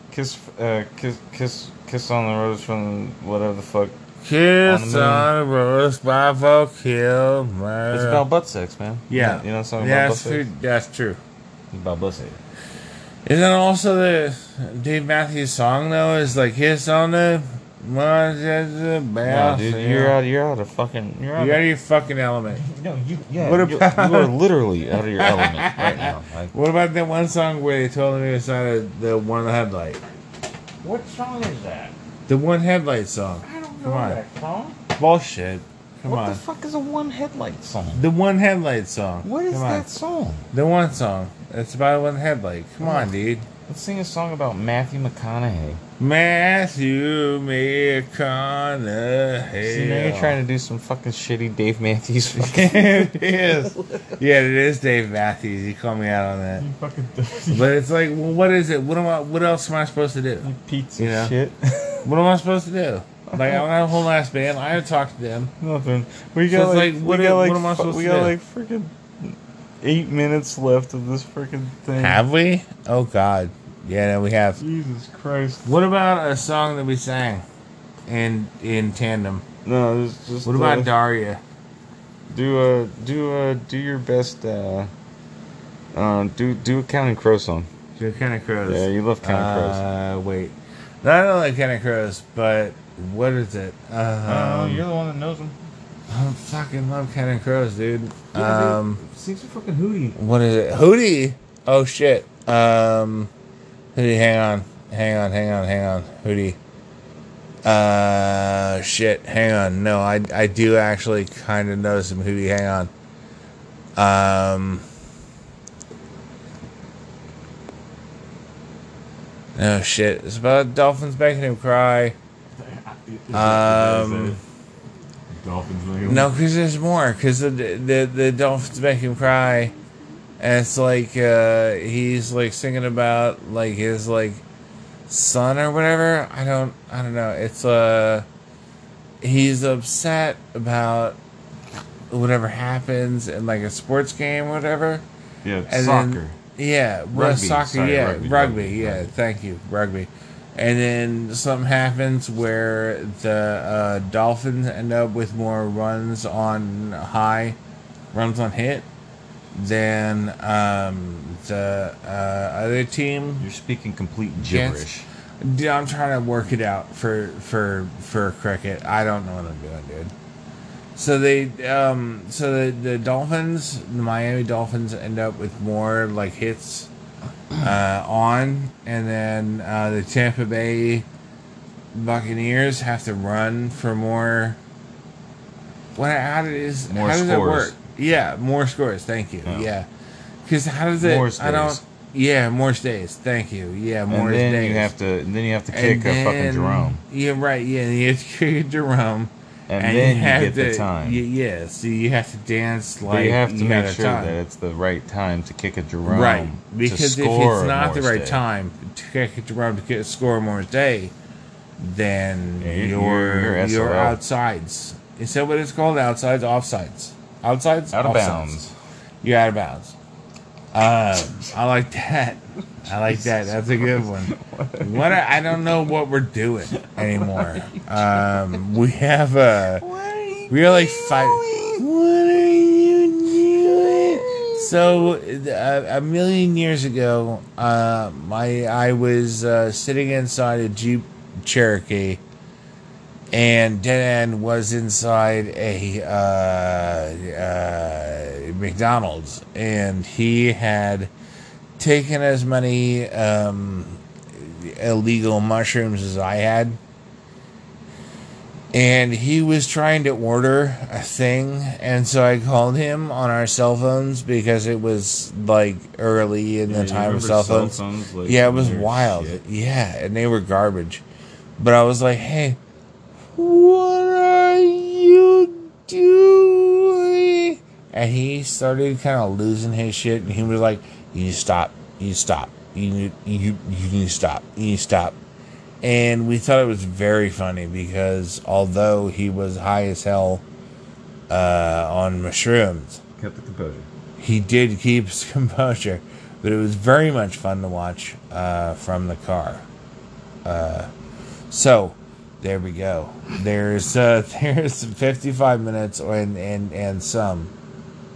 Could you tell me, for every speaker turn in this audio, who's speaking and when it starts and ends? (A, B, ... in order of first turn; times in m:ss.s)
0:00.1-0:04.0 A
0:04.2-0:08.2 B
0:04.6-0:05.3 A
0:07.9-0:10.5 A
0:09.1-0:11.2 B
0:11.7-0:12.4 A
0:13.3-0:20.2 B
0:19.2-0:21.6 A
0:21.4-0:22.6 B
0:22.5-0:26.5 A
0:23.4-0:24.4 B
0:24.9-0:30.0 B
0:30.8-0:31.9 A
0:32.3-0:34.2 B
0:33.4-0:34.8 A
0:35.0-0:36.4 B
0:36.0-0:38.0 A
0:37.9-0:39.9 B
0:39.2-0:40.4 A
0:40.5-0:43.5 B
0:42.8-0:43.1 A
0:43.7-0:45.8 A
0:46.0-0:50.4 B
0:49.6-0:54.2 A
0:52.3-0:56.6 B
0:56.6-0:57.7 A
0:57.5-1:01.4 B
1:00.4-1:02.1 A
1:02.0-1:05.5 B
1:03.3-1:03.6 A
1:05.6-1:12.2 A
1:06.5-1:08.4 B
1:12.0-1:14.6 B
1:14.6-1:15.7 A
1:15.6-1:17.4 B
1:18.1-1:19.4 B
1:19.6-1:20.9 A
1:20.4-1:21.4 B
1:22.3-1:24.9 A
1:25.9-1:27.7 A
1:28.0-1:34.8 B
1:28.7-1:29.8 A
1:34.3-1:35.6 A
1:36.1-1:39.0 B
1:38.3-1:40.2 A
1:40.2-1:43.3 B
1:44.0-1:46.6 B
1:47.6-1:52.9 B
1:54.0-1:54.8 B
1:59.6-2:02.2 B
2:02.6-2:04.4 A
2:03.3-2:04.4 B
2:05.3-2:06.3 A
2:06.0-2:09.7 B
2:10.4-2:14.4 B
2:15.1-2:18.3 B
2:19.2-2:21.2 B
2:22.1-2:25.0 B
2:25.4-2:26.4 A
2:25.7-2:37.6 B
2:27.1-2:29.1 A
2:38.1-2:38.9 B
2:39.5-2:43.4 B
2:43.4-2:45.1 A
2:44.4-2:44.9 B
2:45.4-2:50.1 B
2:51.0-2:56.9 B
2:57.6-3:01.1 B
3:01.9-3:04.6 B
3:06.0-3:09.9 B
3:06.9-3:07.8 A
3:09.4-3:09.7 A
3:10.5-3:14.9 B
3:11.0-3:11.8 A
3:14.1-3:17.0 A
3:15.7-3:24.4 B
3:19.7-3:21.2 A
3:23.1-3:28.4 A
3:26.1-3:31.1 B
3:31.8-3:38.6 B
3:32.6-3:34.2 A
3:37.9-3:38.7 A
3:39.2-3:40.0 B
3:40.7-3:49.8 B
3:42.9-3:45.2 A
3:46.7-3:48.6 A
3:49.7-3:51.8 A
3:50.5-4:02.2 B
3:53.9-3:55.1 A
4:03.3-4:11.1 B
4:11.8-4:16.8 B
4:18.7-4:31.0 B
4:26.7-4:29.4 A
4:31.6-4:32.6 B
4:33.4-4:45.2 B
4:45.8-4:50.4 B
4:51.3-4:53.0 B
4:53.2-4:53.9 A
4:54.2-4:59.7 B
5:00.4-5:00.9 B
5:01.5-5:07.5 B